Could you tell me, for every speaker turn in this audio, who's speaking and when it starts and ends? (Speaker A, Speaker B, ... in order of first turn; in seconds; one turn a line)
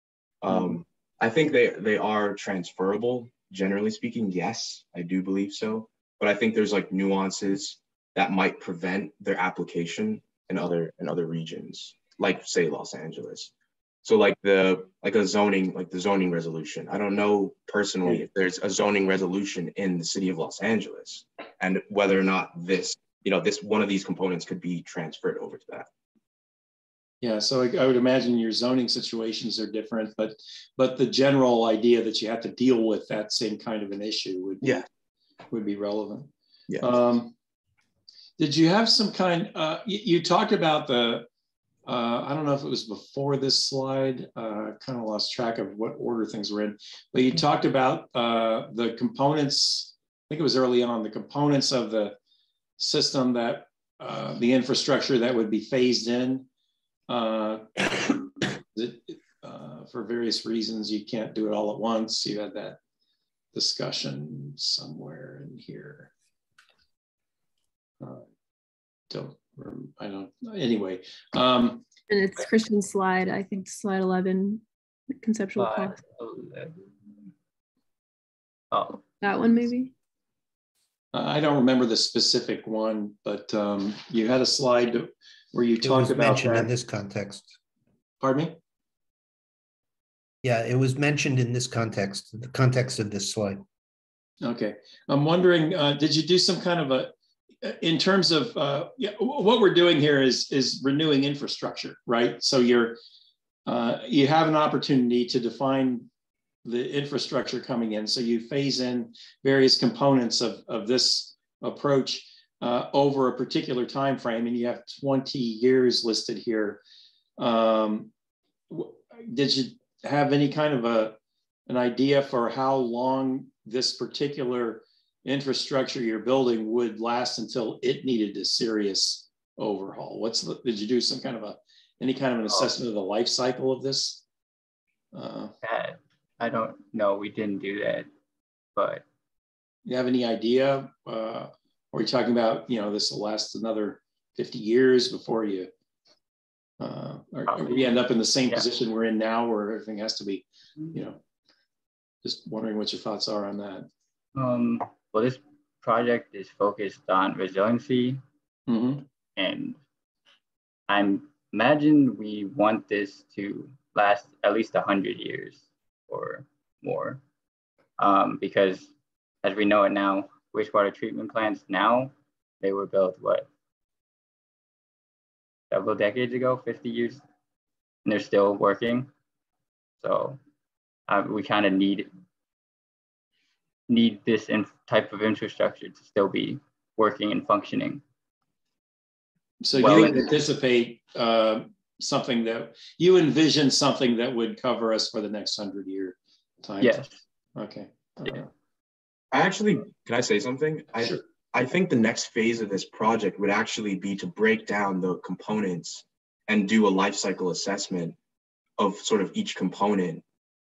Speaker A: 0.4-13.5
Speaker A: 14.0-25.9
Speaker B: 27.2-34.9
Speaker B: 35.5-37.3
Speaker B: 38.4-41.3
Speaker B: 41.9-52.2
Speaker B: 52.8-56.5
Speaker B: 57.1-62.8
Speaker B: 63.5-66.1
Speaker B: 68.0-68.3
Speaker B: 69.1-71.8
Speaker C: 72.1-74.6
Speaker C: 75.2-76.0
Speaker D: 75.6-76.9
Speaker D: 78.7-79.0
Speaker C: 79.2-79.9
Speaker B: 81.1-86.7
Speaker E: 85.8-87.5
Speaker B: 88.2-88.6
Speaker E: 90.4-93.6
Speaker B: 94.4-103.0
Speaker B: 103.7-106.1
Speaker B: 106.7-116.8
Speaker B: 117.4-118.1
Speaker B: 118.7-134.2
Speaker B: 135.1-135.6
Speaker D: 135.6-138.1
Speaker D: 138.8-139.0
Speaker B: 139.9-145.7
Speaker B: 146.8-151.2
Speaker D: 147.5-147.9
Speaker B: 152.2-153.9
Speaker D: 154.4-158.2
Speaker B: 158.7-159.1
Speaker D: 159.4-159.8
Speaker D: 160.9-167.2
Speaker D: 168.0-168.9
Speaker D: 169.4-173.5
Speaker D: 175.7-177.2
Speaker D: 178.1-179.1
Speaker D: 180.0-180.4
Speaker D: 181.1-182.1
Speaker D: 183.9-188.0
Speaker B: 189.6-198.5
Speaker D: 189.8-190.3
Speaker D: 196.8-197.2
Speaker A: 199.3-208.2
Speaker A: 208.8-210.2